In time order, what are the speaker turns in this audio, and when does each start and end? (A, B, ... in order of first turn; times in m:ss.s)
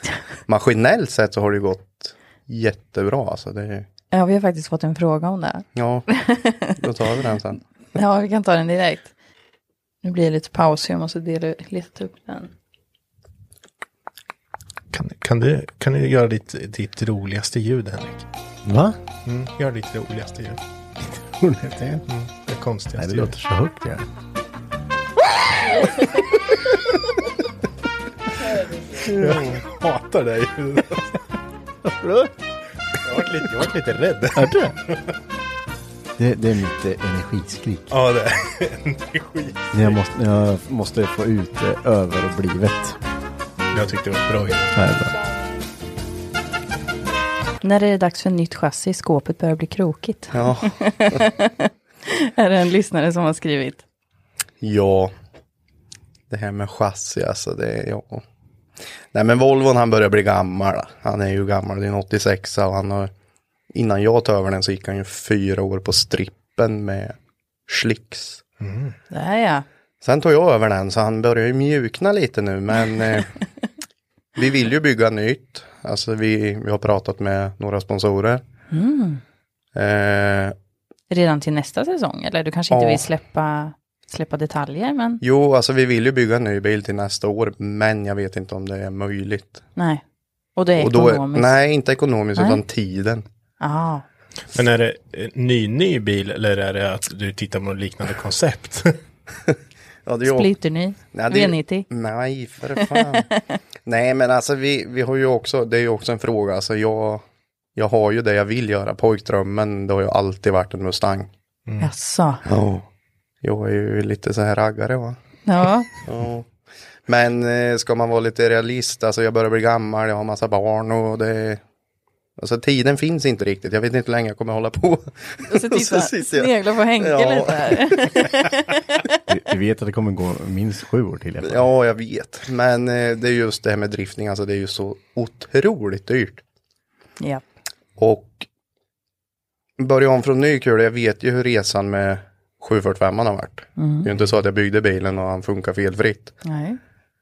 0:00.5-0:03.9 A
0:04.1-0:06.8 B
0:05.8-0:06.1 A
0:06.8-0:07.6 A
0:07.9-0:09.1 B
0:10.0-0:12.5 B
0:14.9-0:18.2 C
0:18.6-0:19.0 D
0:19.2-0:20.6 C
0:21.3-0:22.0 D
0:22.1-0:23.3 C
0:23.0-0:24.0 D
0:29.0-0:31.2 C
0:29.2-0:29.4 D
0:31.8-0:32.3 D
0:33.0-0:35.1 C
0:34.3-0:34.8 D
0:36.2-0:37.9 D
0:37.9-0:40.0 C
0:39.7-0:43.0 D
0:43.7-0:44.6 C
0:44.7-0:45.1 D
0:47.6-0:53.8 B
0:50.3-0:51.2 A
0:54.6-0:55.1 A
0:56.3-0:58.2 A
0:59.1-1:03.1 A
1:03.7-1:07.1 A
1:07.7-1:08.4 A
1:08.6-1:09.0 C
1:09.1-1:09.6 B
1:10.0-1:13.4 A
1:14.4-1:18.4 A
1:18.7-1:19.2 B
1:19.7-1:20.5 A
1:21.1-1:25.2 B
1:22.7-1:23.0 A
1:25.2-1:29.6 A
1:29.8-1:30.0 B
1:30.6-1:31.6 B
1:30.8-1:33.2 A
1:32.4-1:32.6 B
1:33.6-1:34.0 B
1:34.5-1:39.0 C
1:40.0-1:40.5 A
1:40.2-1:41.9 B
1:41.1-1:43.3 A
1:42.8-1:43.4 B
1:43.8-1:47.2 A
1:47.8-1:51.3 A
1:51.8-1:52.4 B
1:52.4-1:52.8 A
1:53.4-1:55.2 A
1:55.4-1:55.9 B
1:56.0-1:56.5 A
1:57.1-2:01.6 A
2:02.4-2:08.2 A
2:05.5-2:09.1 B
2:09.3-2:11.7 D
2:11.4-2:16.4 A
2:18.0-2:18.4 A
2:19.8-2:26.3 A
2:23.8-2:24.1 B
2:26.4-2:26.8 B